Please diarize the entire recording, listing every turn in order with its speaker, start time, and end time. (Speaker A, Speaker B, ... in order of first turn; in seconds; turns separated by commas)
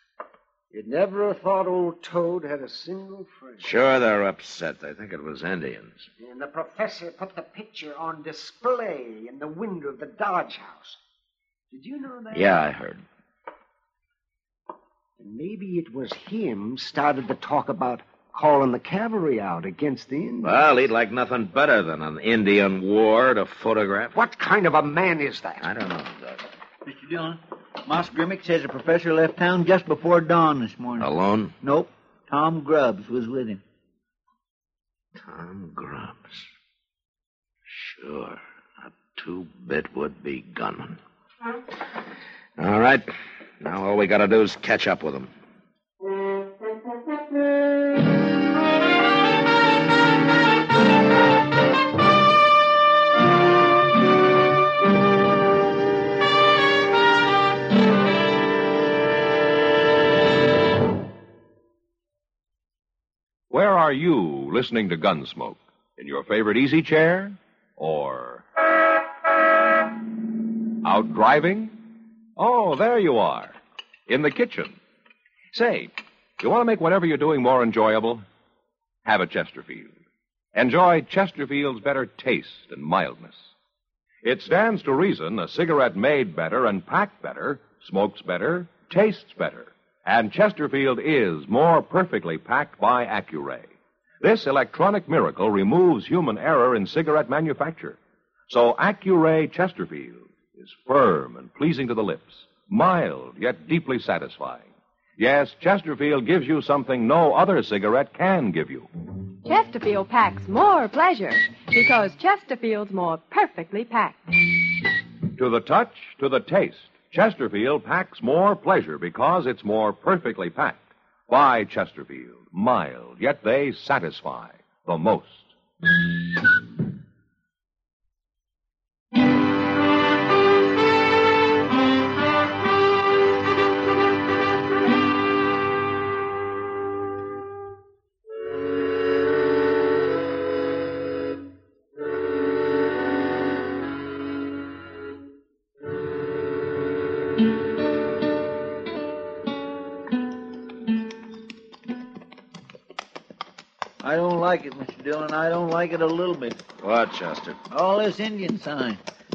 Speaker A: 0.7-3.7, Speaker B: 3.6-6.1, Speaker A: 6.2-11.0, Speaker A: 11.7-12.6, Speaker B: 12.3-13.0, Speaker A: 15.2-20.6, Speaker B: 20.4-24.2, Speaker A: 24.1-25.7, Speaker B: 25.6-26.4, Speaker C: 26.8-31.1, Speaker B: 31.0-31.5, Speaker C: 31.6-33.6, Speaker B: 35.2-36.5, Speaker B: 37.7-41.0, Speaker B: 42.6-43.1, Speaker B: 43.6-45.3, Speaker D: 63.5-68.4, Speaker D: 70.8-71.8, Speaker D: 72.3-73.5, Speaker D: 74.1-74.8, Speaker D: 75.5-78.2, Speaker D: 79.0-79.9, Speaker D: 80.5-83.5, Speaker D: 84.2-98.0, Speaker D: 98.5-108.9, Speaker E: 109.4-114.5, Speaker D: 115.3-125.5, Speaker C: 154.0-156.6, Speaker B: 156.8-157.6, Speaker C: 157.7-159.0